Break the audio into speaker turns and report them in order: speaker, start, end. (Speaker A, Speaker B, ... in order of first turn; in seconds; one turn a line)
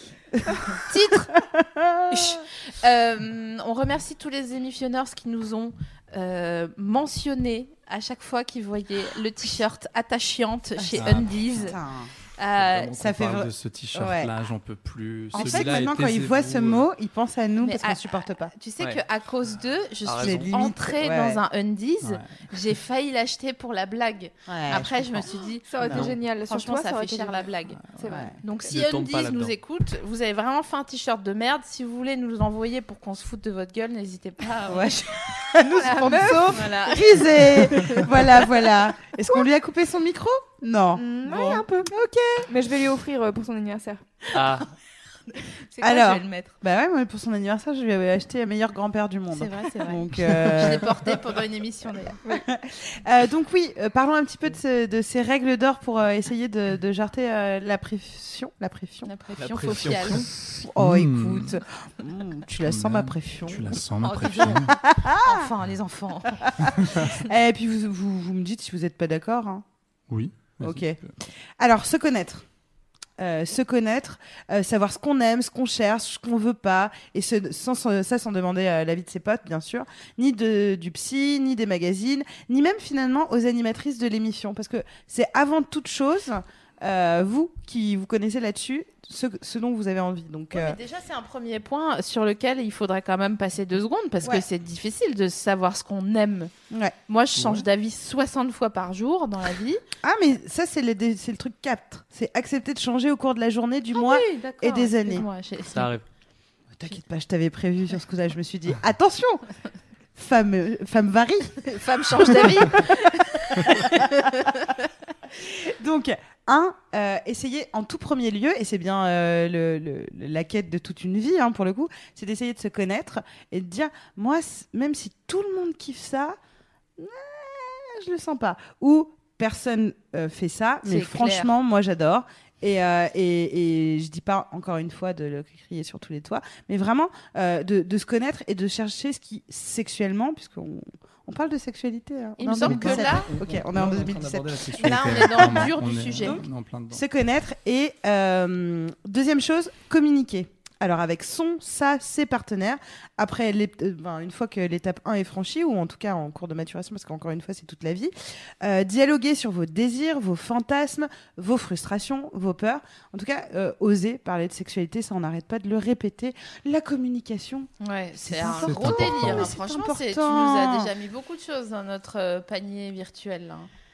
Speaker A: 0.3-2.4
Speaker B: 0.8-1.3
Speaker B: 2.1-11.8
Speaker A: 10.8-12.1
Speaker C: 10.9-11.7
Speaker B: 12.4-12.9
Speaker C: 12.5-16.9
Speaker A: 13.0-14.3
Speaker B: 15.3-15.7
Speaker A: 15.3-18.5
Speaker B: 17.6-27.8
Speaker D: 20.0-20.5
Speaker A: 20.2-21.4
Speaker C: 22.0-22.4
Speaker A: 24.5-25.3
Speaker E: 25.7-28.4
Speaker A: 28.1-28.3
Speaker B: 28.4-38.1
Speaker D: 28.7-29.5
Speaker A: 34.6-42.5
Speaker E: 35.6-36.7
Speaker E: 41.0-41.9
Speaker E: 42.5-44.2
Speaker D: 44.3-44.7
Speaker B: 45.7-46.5
Speaker A: 45.8-50.9
Speaker B: 49.3-52.2
Speaker A: 52.3-59.1
Speaker B: 59.0-60.2
Speaker C: 59.4-61.6
Speaker A: 60.2-63.8
Speaker C: 62.6-64.8
Speaker B: 64.0-67.0
Speaker A: 64.4-65.5
Speaker A: 66.4-69.6
Speaker C: 70.1-71.1
Speaker A: 70.6-71.0
Speaker A: 71.6-72.4
Speaker A: 73.2-90.8
Speaker B: 90.5-96.5
Speaker A: 96.7-96.9
Speaker B: 97.1-99.8
Speaker A: 100.0-105.2
Speaker B: 103.9-105.9
Speaker D: 105.7-106.0
Speaker A: 106.7-109.4
Speaker A: 110.2-111.6
Speaker B: 111.6-114.9
Speaker A: 112.2-112.9
Speaker A: 113.5-114.1
Speaker A: 115.3-126.4
Speaker A: 127.0-145.7
Speaker B: 130.8-131.5
Speaker B: 142.4-143.3
Speaker C: 142.5-147.0
Speaker B: 144.8-146.4
Speaker A: 146.2-170.9
Speaker B: 167.8-173.7
Speaker C: 168.4-169.5